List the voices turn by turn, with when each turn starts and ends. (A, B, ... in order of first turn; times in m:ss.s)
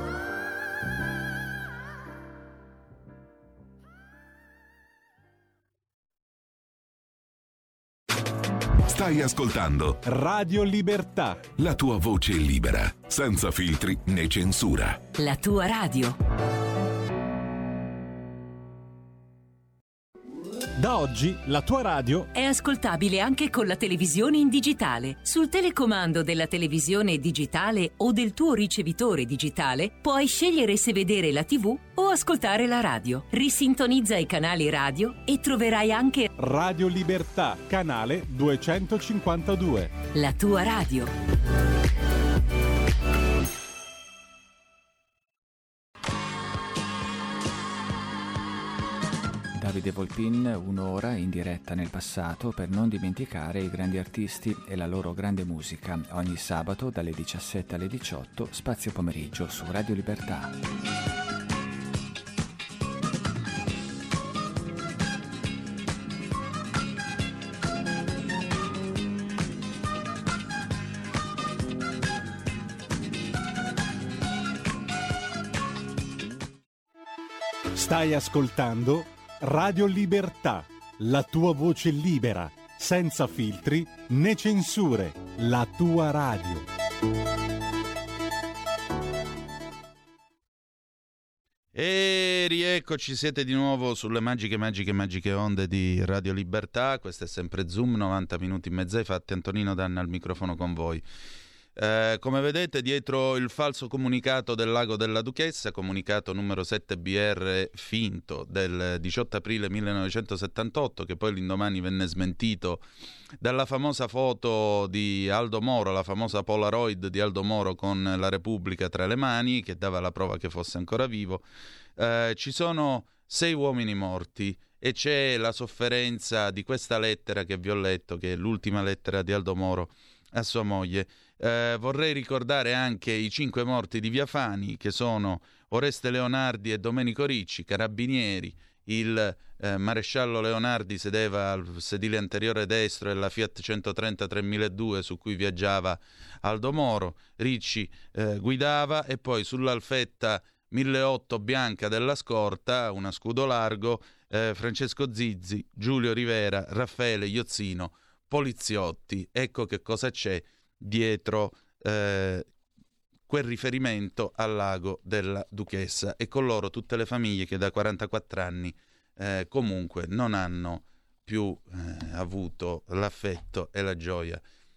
0:08.8-0:10.0 A
0:10.1-0:11.5 B
0:11.6-0:15.0 A
0:15.2-0:16.2 C
0:20.8-0:22.3 B
0:22.3-0:36.3 C
0:36.4-0:39.9 B
0:40.1-0:41.1 C
0:49.6-1:00.5 D
1:17.8-1:26.7 B
1:31.7-1:41.0 E
1:41.8-1:52.8 E
1:53.4-2:01.4 E
2:02.0-2:42.5 E
2:43.3-2:54.4 E